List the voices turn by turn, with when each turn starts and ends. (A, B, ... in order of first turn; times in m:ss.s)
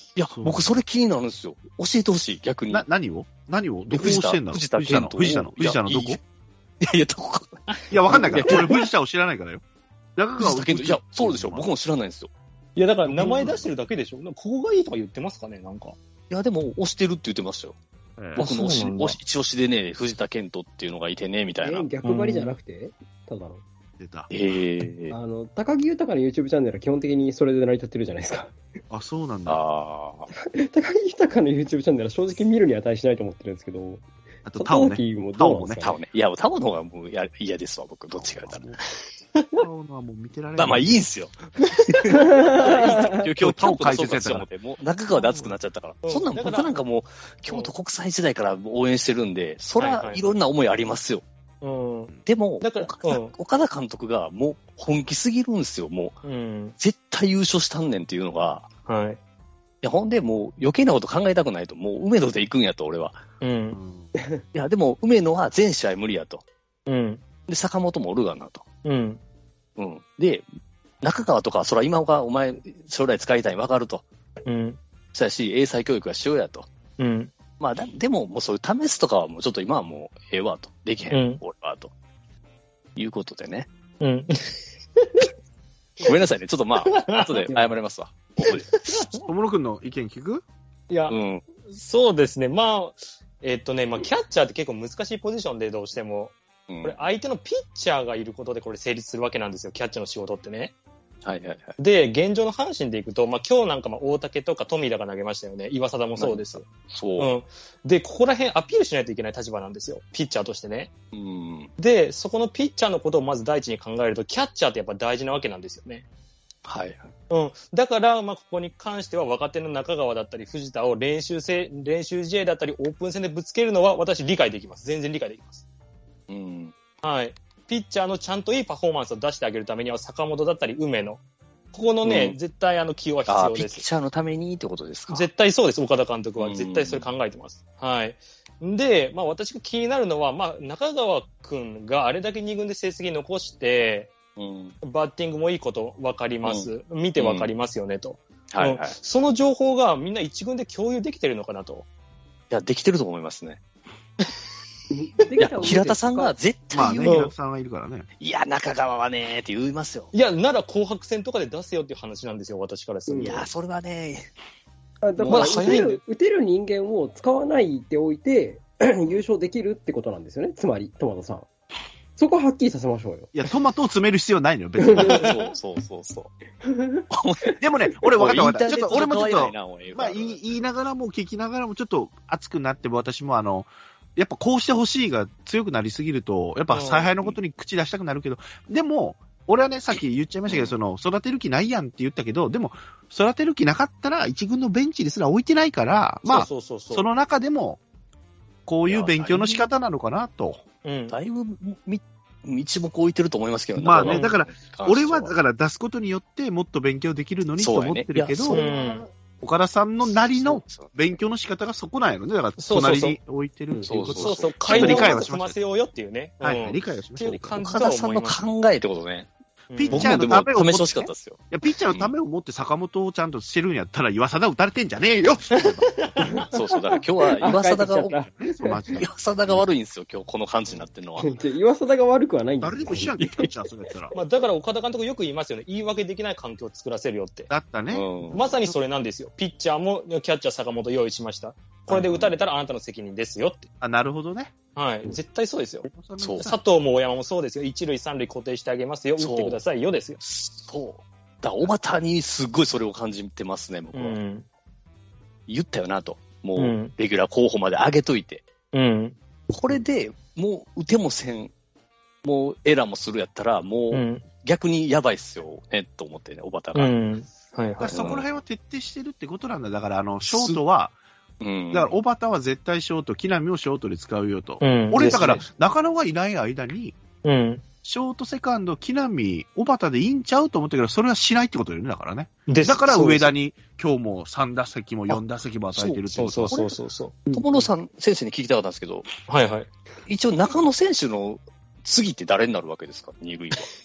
0:00.2-0:02.8 A
0:00.3-0:00.7 B
0:02.7-0:06.2 B
0:03.9-0:06.2 A
0:06.8-0:07.6 A
0:07.9-0:09.6 B
0:08.1-0:08.8 A
0:08.1-0:08.7 C
0:10.2-0:11.7 B
0:10.4-0:12.3 A
0:12.8-0:16.0 C
0:13.1-0:13.7 B
0:16.3-0:17.8 A
0:18.2-0:18.4 B
0:18.4-0:19.2 C
0:18.4-0:21.9 A
0:21.6-0:23.6 D
0:22.0-0:22.6 C
0:24.0-0:24.3 B
0:24.3-0:25.2 A
0:25.1-0:28.6 D
0:28.9-0:29.6 B
0:29.5-0:30.3 A
0:30.3-0:34.0 D
0:34.4-0:35.8 B
0:34.6-0:36.0 D
0:35.8-0:38.8 A
0:38.2-0:38.8 B
0:39.5-0:41.0 B
0:40.6-0:51.2 A
0:42.1-0:43.2 D
0:43.1-0:44.5 B
0:45.2-0:45.5 C
0:46.0-0:46.7 C
0:49.8-0:50.2 C
0:51.6-0:53.3 C
0:52.2-0:56.2 A
0:56.2-0:56.8 C
0:56.8-0:58.7 A
0:58.9-0:59.2 C
0:59.8-1:03.2 A
1:03.4-1:03.8 C
1:03.7-1:04.1 B
1:04.2-1:04.4 D
1:04.5-1:06.4 A
1:06.9-1:07.2 C
1:07.5-1:08.6 A
1:08.8-1:09.2 C
1:09.8-1:10.4 A
1:11.0-1:14.0 A
1:14.4-1:14.8 C
1:15.1-1:16.7 A
1:17.0-1:17.3 C
1:17.6-1:21.9 A
1:21.1-1:21.4 C
1:23.0-1:23.7 A
1:24.0-1:25.3 C
1:26.0-1:28.7 A
1:27.0-1:27.5 C
1:28.4-1:29.3 C
1:29.2-1:30.4 B
1:30.9-1:31.2 C
1:31.1-1:31.4 A
1:31.7-1:40.7 C
1:36.7-1:37.0 A
1:41.2-1:41.8 A
1:41.8-1:46.6 C
1:46.2-1:47.3 A
1:47.2-1:50.9 C
1:51.1-1:51.7 A
1:51.8-1:56.0 C
1:56.6-1:57.1 A
1:57.3-2:05.6 C
2:06.3-2:06.7 A
2:07.0-2:11.2 C
2:11.7-2:13.9 C
2:12.0-2:12.4 A
2:13.3-2:15.3 A
2:15.1-2:24.1 C
2:16.4-2:17.1 A
2:24.4-2:24.8 A
2:24.8-2:31.9 C
2:26.4-2:27.5 A
2:28.5-2:29.0 A
2:32.5-2:33.6 A
2:34.9-2:36.4 D
2:35.4-2:37.3 A
2:36.7-2:38.0 B
2:37.0-2:37.3 C
2:38.2-2:40.1 A
2:40.1-2:43.3 C
2:43.1-2:43.5 D
2:43.2-2:44.3 A
2:45.0-2:51.5 D
2:45.2-2:45.7 A
2:45.3-2:46.0 C
2:52.2-2:53.3 D
2:53.3-2:55.2 B
2:54.8-2:55.3 D
2:54.9-2:56.3 A
2:56.6-2:57.1 D
2:57.1-2:57.6 A
2:57.6-3:17.8 B
2:58.2-3:00.4 A
3:06.7-3:07.1 C
3:10.5-3:10.8 A
3:16.2-3:17.1 C
3:18.7-3:20.6 B
3:18.9-3:19.6 A
3:20.8-3:21.2 C
3:21.1-3:25.4 A
3:23.8-3:28.6 B
3:24.0-3:24.3 C
3:27.6-3:28.9 A
3:28.5-3:29.1 C
3:29.4-3:35.6 B
3:30.0-3:31.2 A
3:32.6-3:33.2 C
3:33.9-3:35.2 A
3:34.1-3:38.4 C
3:36.4-3:37.6 B
3:37.6-3:39.3 A
3:39.7-3:40.2 C
3:39.8-3:45.9 B
3:39.9-3:42.1 A
3:45.8-3:46.5 C
3:46.3-3:49.0 D
3:46.5-3:48.1 A
3:48.1-3:49.7 B
3:49.0-3:51.4 A
3:51.2-3:53.2 D
3:52.6-3:54.2 B
3:53.2-3:53.5 A
3:54.1-3:57.5 C
3:57.5-3:58.8 B
3:57.9-3:58.6 A
3:58.3-4:03.7 C
4:01.9-4:02.3 A
4:03.8-4:04.5 B
4:04.8-4:05.9 C
4:05.9-4:06.6 B
4:06.2-4:06.5 A
4:06.4-4:10.2 C
4:09.2-4:09.6 A
4:10.2-4:14.2 A
4:13.9-4:14.4 C
4:15.5-4:18.5 A
4:16.6-4:16.9 C
4:18.7-4:19.2 C
4:19.5-4:21.5 A
4:22.2-4:27.0 A
4:23.9-4:24.2 C
4:26.8-4:28.0 C
4:27.8-4:31.0 B
4:27.9-4:28.2 A
4:30.2-4:30.6 A
4:31.4-4:32.0 A
4:31.7-4:37.0 B
4:34.6-4:35.4 C
4:35.0-4:35.4 A
4:37.2-4:37.6 C
4:37.8-4:46.6 B
4:42.5-4:43.3 C
4:45.8-4:46.8 A
4:46.1-4:47.4 C
4:47.3-4:49.1 A
4:49.3-4:49.7 C
4:50.1-4:53.7 A